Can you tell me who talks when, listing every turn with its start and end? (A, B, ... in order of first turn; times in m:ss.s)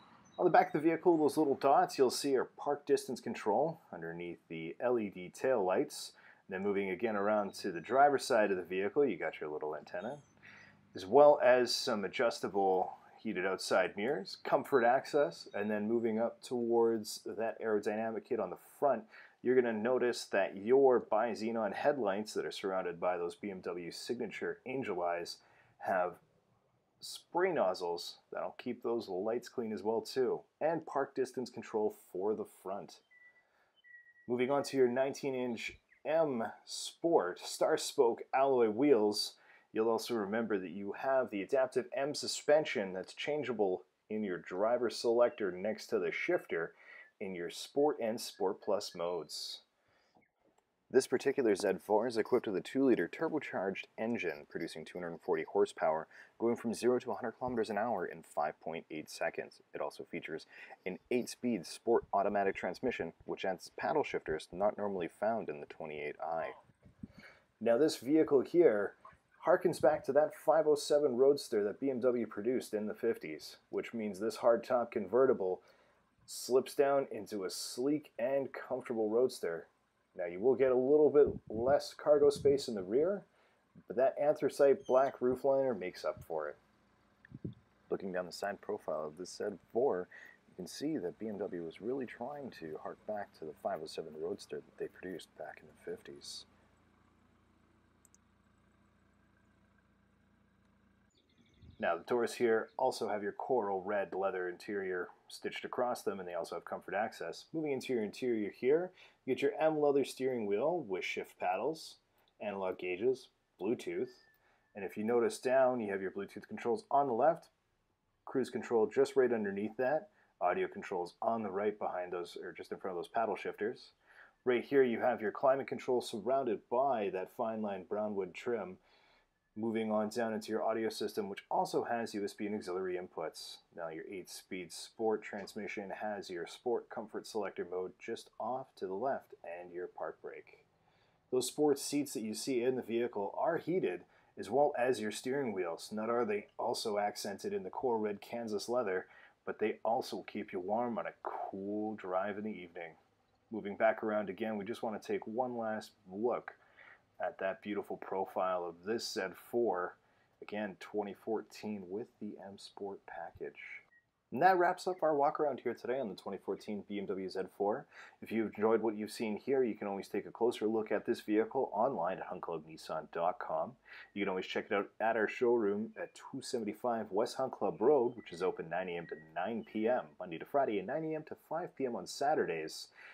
0:00.4-0:10.2 A
0:10.9-0:26.2 A
0:27.0-0:33.0 A
0:34.3-0:49.6 A
0:50.9-1:06.6 A
1:07.6-1:15.6 A
1:16.3-1:23.3 A
1:23.9-1:26.6 A
1:27.9-1:36.5 A
1:41.8-1:57.5 A
1:58.3-2:08.8 A
2:09.6-2:20.7 A
2:21.3-2:33.0 A
2:33.5-2:36.6 A
2:37.2-3:02.9 A